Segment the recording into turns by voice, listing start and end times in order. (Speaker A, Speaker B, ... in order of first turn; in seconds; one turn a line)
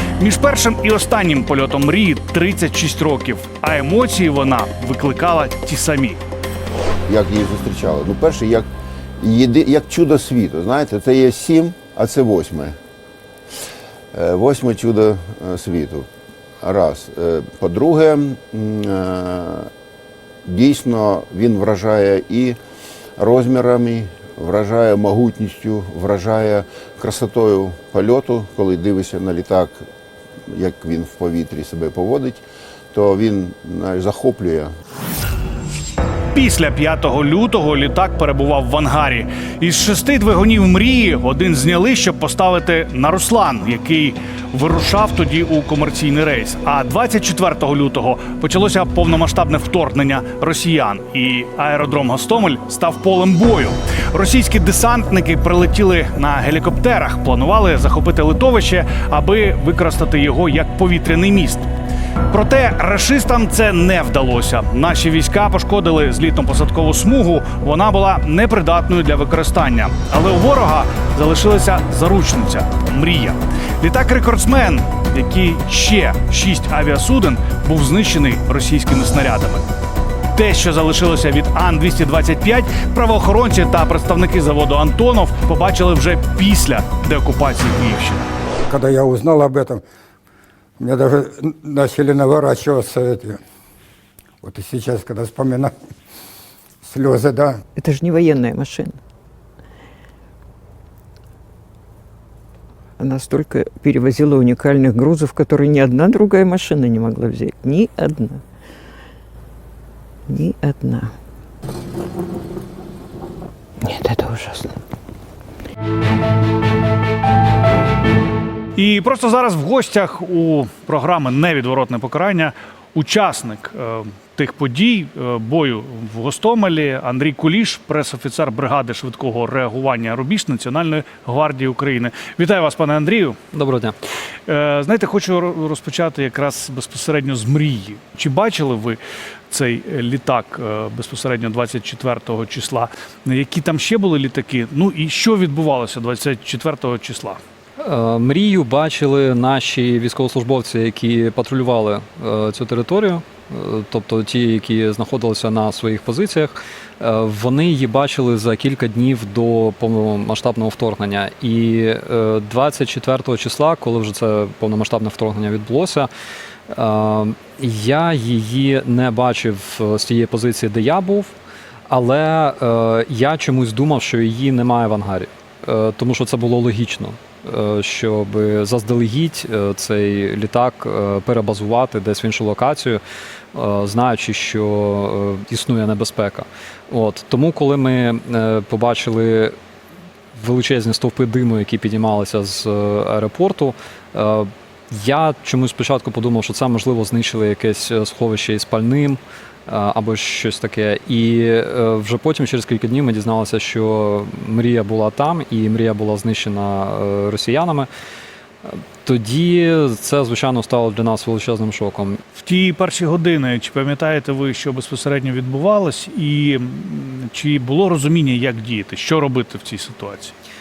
Speaker A: 0.2-6.2
Speaker B: 7.1-8.7
Speaker B: 9.2-12.8
Speaker B: 14.1-16.1
Speaker B: 16.6-19.7
Speaker B: 20.4-22.6
Speaker B: 23.2-29.9
Speaker B: 30.5-34.7
Speaker A: 36.3-61.7
Speaker A: 62.3-79.7
Speaker A: 80.3-88.3
Speaker C: 88.7-89.8
Speaker C: 90.8-93.4
Speaker C: 94.4-95.7
Speaker C: 96.8-97.6
Speaker D: 97.8-99.0
Speaker D: 103.0-108.4
Speaker D: 110.3-111.1
Speaker D: 113.8-114.8
Speaker A: 118.8-133.4
Speaker E: 133.5-134.0
Speaker A: 134.5-147.4
Speaker E: 147.8-166.1
Speaker E: 166.7-171.3
Speaker E: 171.9-183.0
Speaker E: 183.5-189.6
Speaker E: 190.3-207.9
Speaker E: 208.7-212.2
Speaker A: 212.4-220.3